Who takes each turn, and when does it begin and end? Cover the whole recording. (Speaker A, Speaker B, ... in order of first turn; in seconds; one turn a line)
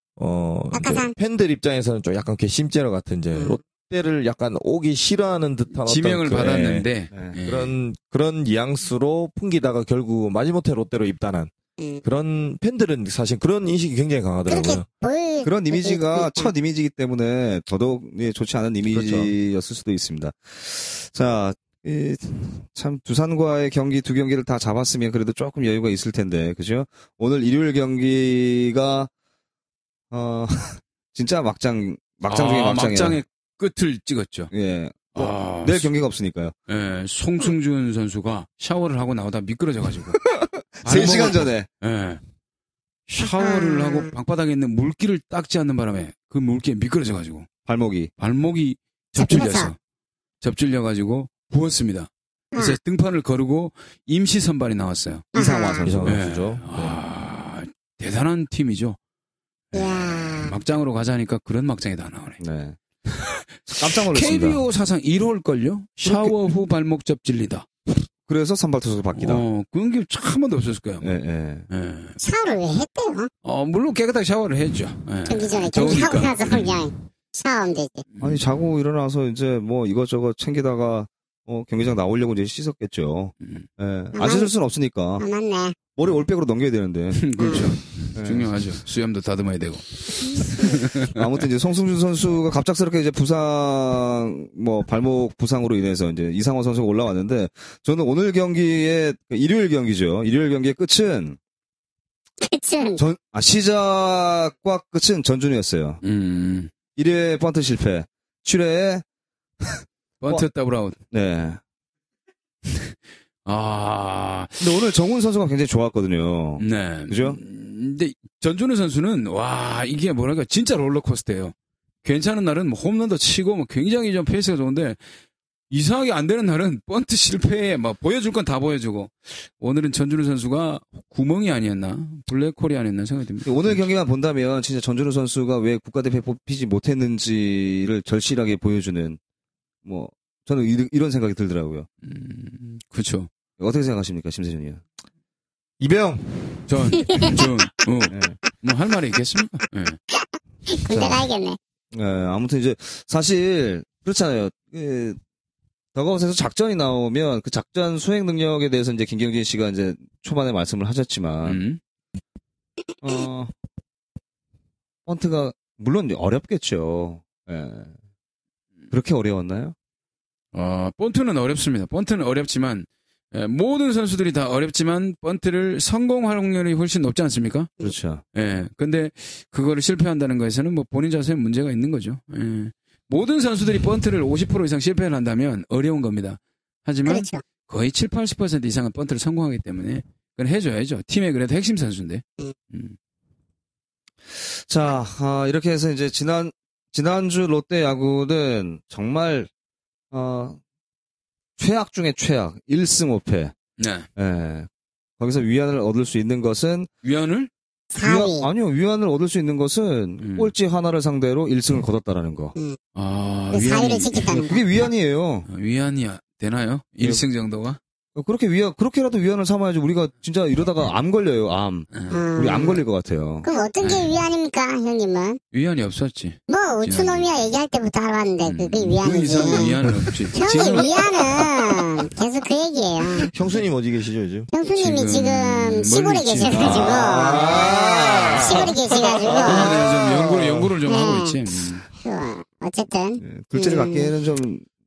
Speaker A: 0.2-6.9
Speaker B: 0.7-1.1
Speaker C: 5.7-7.8
Speaker A: 7.5-11.5
Speaker A: 12.0-14.8
Speaker B: 14.5-16.5
Speaker D: 15.4-29.1
Speaker A: 18.9-19.3
Speaker D: 30.1-33.2
Speaker C: 32.3-34.5
Speaker D: 34.5-36.5
Speaker C: 35.1-35.9
Speaker C: 36.7-40.2
Speaker D: 40.4-41.7
Speaker C: 40.8-42.2
Speaker C: 43.1-47.5
Speaker B: 43.2-44.1
Speaker D: 47.7-48.1
Speaker C: 48.2-49.8
Speaker B: 49.2-49.7
Speaker C: 50.4-55.3
Speaker B: 55.3-56.0
Speaker D: 55.4-56.2
Speaker A: 55.8-57.0
Speaker C: 56.0-59.0
Speaker C: 59.7-62.4
Speaker B: 59.7-60.6
Speaker D: 62.4-62.8
Speaker C: 63.1-67.7
Speaker D: 63.7-64.6
Speaker D: 68.3-69.4
Speaker C: 69.2-71.1
Speaker D: 71.0-71.7
Speaker C: 71.7-72.2
Speaker B: 72.2-73.3
Speaker C: 73.4-76.9
Speaker B: 75.3-78.0
Speaker C: 78.1-78.5
Speaker D: 78.2-85.3
Speaker C: 83.4-83.7
Speaker B: 84.2-84.5
Speaker B: 85.2-85.8
Speaker D: 86.0-88.6
Speaker C: 87.1-91.2
Speaker B: 87.4-87.7
Speaker D: 90.9-101.4
Speaker B: 102.4-103.0
Speaker D: 103.0-106.0
Speaker C: 106.0-106.7
Speaker D: 107.0-109.0
Speaker D: 109.6-110.5
Speaker C: 110.2-111.0
Speaker D: 111.1-111.6
Speaker C: 112.7-114.7
Speaker D: 114.6-117.4
Speaker C: 116.6-125.0
Speaker C: 125.7-133.8
Speaker D: 133.4-139.2
Speaker D: 139.8-141.9
Speaker C: 142.0-143.3
Speaker D: 143.6-144.8
Speaker A: 145.8-146.6
Speaker C: 146.7-150.0
Speaker B: 147.0-147.3
Speaker D: 148.1-148.4
Speaker B: 150.7-151.6
Speaker D: 150.9-151.3
Speaker D: 151.9-155.2
Speaker D: 155.9-161.6
Speaker C: 161.4-161.8
Speaker D: 163.0-163.5
Speaker D: 165.1-167.9
Speaker D: 168.9-169.8
Speaker C: 170.5-177.7
Speaker D: 177.8-178.2
Speaker C: 178.3-193.0
Speaker B: 187.1-187.4
Speaker D: 194.3-199.5
Speaker D: 200.1-200.6
Speaker D: 201.6-203.6
Speaker C: 203.8-204.1
Speaker D: 204.2-204.7
Speaker D: 205.2-206.9
Speaker C: 207.0-207.5
Speaker B: 207.9-208.5
Speaker D: 208.0-212.6
Speaker C: 210.2-210.5
Speaker C: 212.9-214.4
Speaker B: 213.5-214.6
Speaker D: 214.3-215.5
Speaker C: 215.5-217.8
Speaker D: 218.2-223.5
Speaker C: 221.9-222.2
Speaker B: 222.1-222.8
Speaker B: 223.4-225.4
Speaker C: 223.8-224.1
Speaker C: 225.5-227.3
Speaker B: 226.5-229.8
Speaker C: 228.4-231.5
Speaker B: 230.3-233.3
Speaker A: 233.3-234.5
Speaker B: 234.5-237.5
Speaker C: 234.7-237.0
Speaker D: 236.5-238.7
Speaker C: 237.9-238.4
Speaker B: 238.4-239.8
Speaker C: 239.4-241.9
Speaker A: 239.6-240.5
Speaker B: 240.9-241.4
Speaker B: 242.0-244.1
Speaker D: 243.2-244.7